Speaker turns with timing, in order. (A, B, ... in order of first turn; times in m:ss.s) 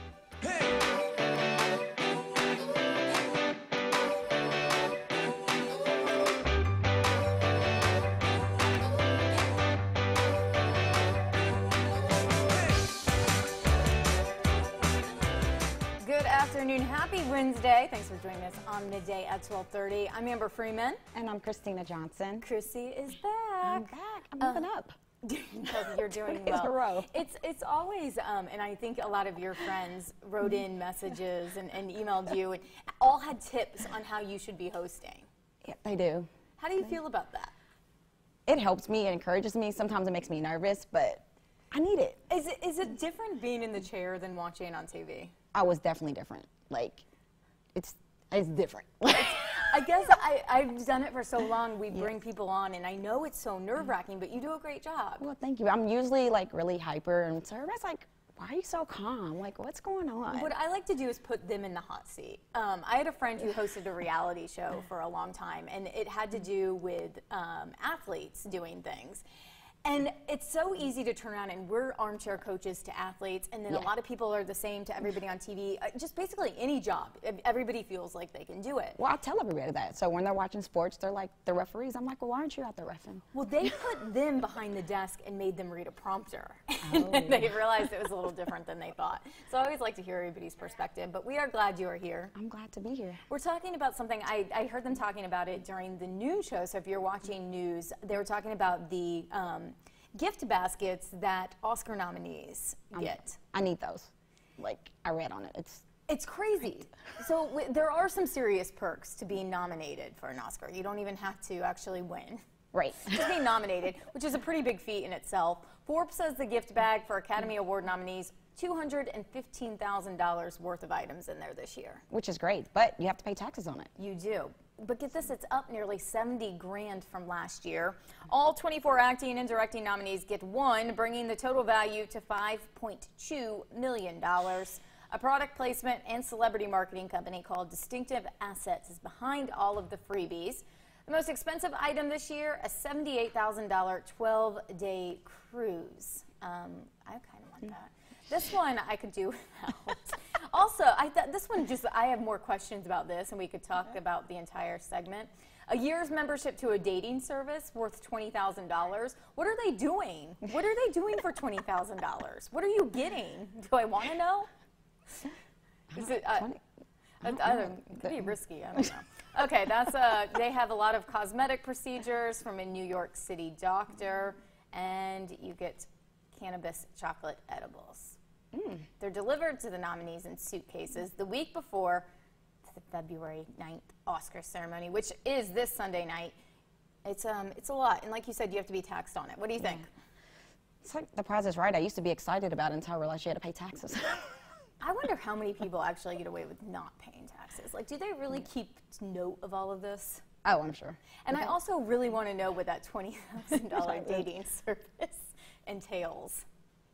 0:16.0-0:21.0 A
0:21.1-0:22.4 B
0:22.4-0:24.7 A
0:23.6-0:25.0 B
0:25.2-0:35.3 A
0:25.7-0:27.1 B
0:35.6-0:36.3 B
0:36.6-0:37.5 A
0:38.4-0:42.2 B
0:42.3-0:45.3 A
0:45.5-0:47.0 B
0:47.7-0:49.7 B
0:49.1-0:55.2 A
0:55.2-1:00.5 B
1:00.3-1:09.2 A
1:09.8-1:19.0 A
1:19.0-1:23.3 B
1:23.3-1:32.3 A
1:26.8-1:27.6 B
1:32.3-1:33.2 B
1:33.3-1:43.4 A
1:42.9-1:45.8 B
1:46.1-1:52.4 A
1:52.7-1:53.3 B
1:53.0-2:02.0 A
2:02.1-2:03.9 B
2:04.0-2:44.5 A
2:45.9-2:46.6 B
2:45.9-2:46.6 A
2:47.2-2:58.2 A
2:47.2-2:47.7 B
2:58.5-2:58.9 B
2:59.0-3:02.1 A
3:02.6-3:06.3 A
3:07.0-3:09.9 A
3:10.8-3:14.3 B
3:14.8-3:20.2 A
3:20.4-3:21.4 B
3:21.2-3:26.4 A
3:23.8-3:24.2 B